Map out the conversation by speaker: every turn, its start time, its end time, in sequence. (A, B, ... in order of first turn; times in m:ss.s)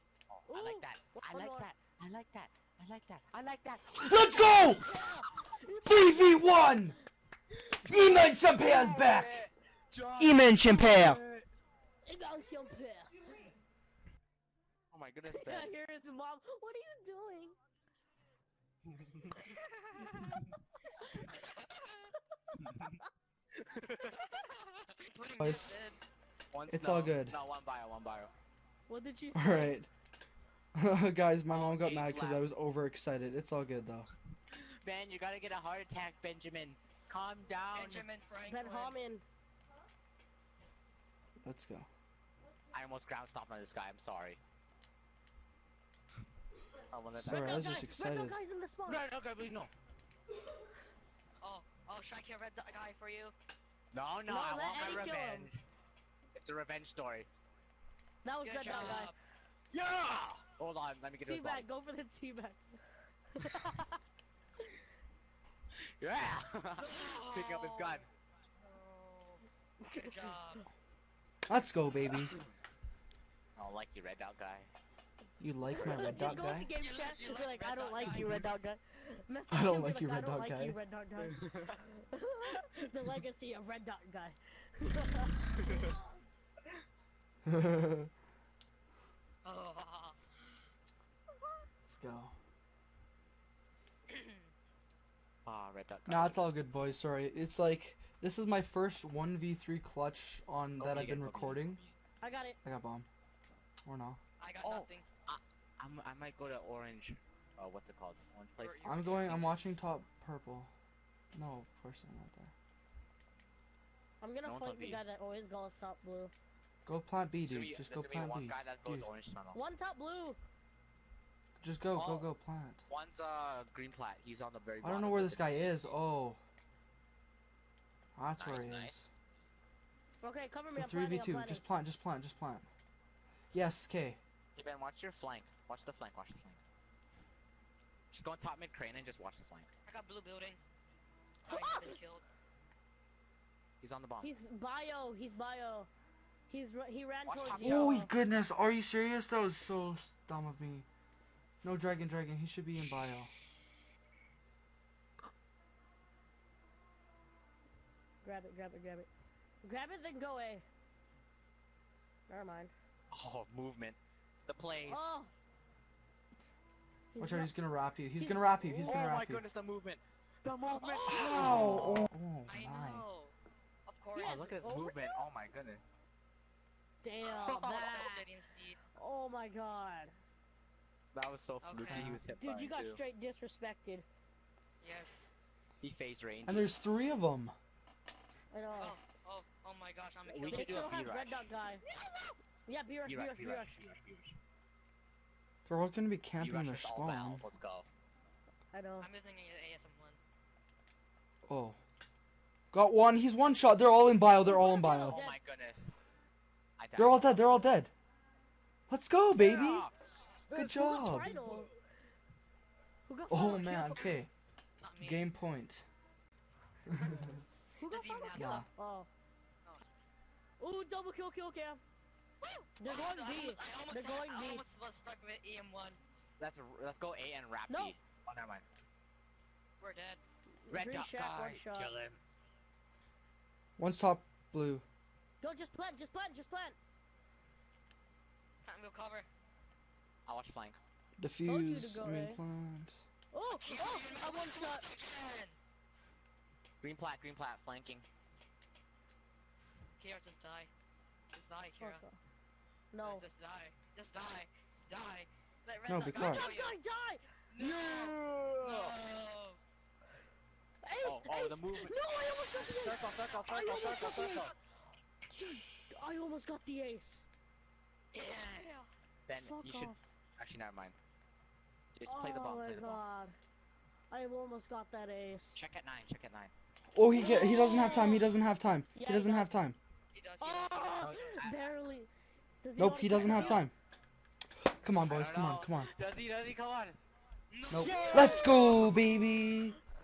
0:00.3-0:04.7 A
0:00.5-0:01.7 B
0:03.9-0:04.9 C
0:04.7-0:06.7 B
0:05.8-0:07.0 C
0:07.8-0:09.5 C
0:08.6-0:11.4 A
0:10.2-0:11.2 C
0:12.0-0:13.4 B
0:14.9-0:15.7 A
0:15.3-0:17.6 B
0:19.5-0:20.3 D
0:21.3-0:22.1 D
0:23.7-0:24.1 A
0:24.1-0:26.0 D
0:25.4-0:25.8 C
0:26.5-0:28.3 A
0:26.7-0:27.4 C
0:28.9-0:29.8 B
0:29.3-0:29.9 C
0:30.7-0:34.1 C
0:31.5-0:32.5 A
0:34.5-0:38.0 A
0:37.7-0:39.0 D
0:38.4-0:39.2 B
0:41.4-0:41.9 C
0:42.7-0:44.4 A
0:46.9-0:47.7 A
0:47.2-0:48.4 C
0:47.2-0:49.1 B
0:48.8-0:49.7 A
0:51.4-0:53.3 D
0:53.9-0:55.6 A
0:54.2-0:55.5 B
0:56.3-0:57.3 A
0:58.2-0:59.1 B
0:58.4-0:59.1 D
0:58.6-0:59.0 A
0:59.7-1:01.7 A
1:01.2-1:02.6 B
1:03.4-1:03.8 B
1:06.0-1:08.1 A
1:06.8-1:08.0 D
1:08.7-1:09.4 D
1:09.8-1:10.3 B
1:10.0-1:10.6 D
1:11.5-1:12.3 C
1:13.6-1:14.7 A
1:15.4-1:16.7 C
1:15.8-1:25.9 B
1:15.8-1:16.4 A
1:16.8-1:18.5 D
1:19.5-1:20.8 C
1:27.4-1:28.1 C
1:29.4-1:30.6 D
1:31.9-1:32.3 C
1:34.1-1:34.5 D
1:35.4-1:36.5 A
1:36.1-1:41.8 C
1:40.8-1:42.0 A
1:42.2-1:42.6 B
1:42.6-1:43.1 C
1:43.8-1:44.2 C
1:44.4-1:45.1 D
1:44.6-1:48.9 A
1:48.5-1:49.6 D
1:48.8-1:50.7 C
1:51.3-1:52.5 C
1:54.2-1:56.3 B
1:54.4-1:55.0 A
1:56.8-1:59.1 C
1:57.4-1:59.6 A
1:59.5-2:00.4 B
2:01.6-2:02.8 C
2:01.9-2:02.3 A
2:02.9-2:06.0 A
2:04.8-2:06.4 C
2:08.2-2:09.1 C
2:08.4-2:09.0 A
2:10.2-2:11.6 B
2:10.7-2:12.7 C
2:13.5-2:14.2 C
2:14.5-2:16.6 A
2:18.1-2:19.7 A
2:19.8-2:20.6 D
2:21.4-2:22.2 D
2:21.5-2:22.0 B
2:23.8-2:24.3 A
2:24.2-2:25.9 B
2:26.5-2:28.1 B
2:27.2-2:28.0 A
2:27.6-2:30.8 C
2:31.6-2:33.3 C
2:38.2-2:39.1 B
2:39.6-2:40.6 B
2:42.3-2:42.7 B
2:43.1-2:45.1 A
2:44.8-2:45.3 B
2:47.1-2:47.5 B
2:47.2-2:49.4 C
2:48.1-2:49.0 B
2:48.8-2:52.1 A
2:50.8-2:51.2 D
2:50.8-2:51.4 B
2:51.1-2:53.1 C
2:52.4-2:53.3 D
2:53.9-2:54.5 D
2:54.1-2:55.1 B
2:54.2-2:55.8 A
2:57.0-2:58.3 B
2:57.2-2:57.9 A
2:57.5-2:58.8 D
2:58.9-3:00.1 B
3:01.1-3:03.0 A
3:01.6-3:02.1 D
3:01.9-3:02.2 C
3:02.4-3:04.0 B
3:04.8-3:05.3 D
3:05.8-3:06.7 A
3:06.4-3:07.5 C
3:08.5-3:09.0 B
3:08.8-3:11.0 D
3:10.3-3:11.5 A
3:10.4-3:11.8 B
3:11.8-3:12.4 D
3:12.6-3:13.8 B
3:13.0-3:14.4 A
3:15.6-3:17.4 C
3:16.4-3:17.9 A
3:18.7-3:19.1 B
3:19.0-3:20.2 D
3:21.5-3:21.8 C
3:22.7-3:25.2 C
3:24.4-3:25.4 B
3:24.9-3:25.9 A
3:26.8-3:27.8 A
3:27.0-3:27.9 C
3:28.9-3:29.9 C
3:29.4-3:30.5 A
3:30.5-3:31.7 B
3:30.5-3:31.3 C
3:31.0-3:31.6 A
3:33.1-3:34.2 B
3:33.3-3:34.3 C
3:34.8-3:35.3 D
3:35.0-3:35.8 C
3:37.0-3:37.2 C
3:37.8-3:39.1 B
3:37.9-3:38.6 D
3:38.3-3:38.7 C
3:40.6-3:41.8 B
3:42.4-3:46.0 D
3:42.8-3:44.6 B
3:46.4-3:48.6 A
3:47.7-3:47.9 B
3:49.8-3:50.2 D
3:50.6-3:51.9 B
3:50.7-3:52.2 A
3:53.8-3:54.8 C
3:55.4-3:56.8 B
3:58.6-3:59.3 D
4:00.2-4:00.8 A
4:01.2-4:03.0 C
4:01.5-4:02.4 B
4:03.3-4:04.8 B
4:03.5-4:05.6 D
4:06.8-4:08.0 A
4:10.0-4:10.7 D
4:11.3-4:12.0 D
4:11.8-4:12.2 B
4:12.9-4:13.3 B
4:13.0-4:16.8 D
4:15.9-4:16.5 C
4:16.1-4:17.2 B
4:17.5-4:19.6 D
4:17.6-4:19.0 A
4:20.8-4:24.5 B
4:21.0-4:22.0 A
4:22.5-4:24.5 A
4:25.3-4:27.2 B
4:28.1-4:28.9 D
4:29.3-4:30.9 A
4:29.4-4:30.0 B
4:31.9-4:33.0 A
4:32.0-4:33.3 B
4:34.1-4:35.6 B
4:35.5-4:36.5 A
4:36.9-4:39.8 C
4:37.1-4:38.3 B
4:38.9-4:39.6 B
4:40.1-4:41.3 D
4:40.4-4:42.1 B
4:41.0-4:41.8 A
4:42.6-4:43.7 B
4:42.8-4:43.7 C
4:43.2-4:43.6 A
4:44.7-4:45.9 C
4:45.0-4:47.0 A
4:47.5-4:48.4 D
4:47.7-4:49.8 C
4:47.8-4:48.8 B
4:47.8-4:48.4 A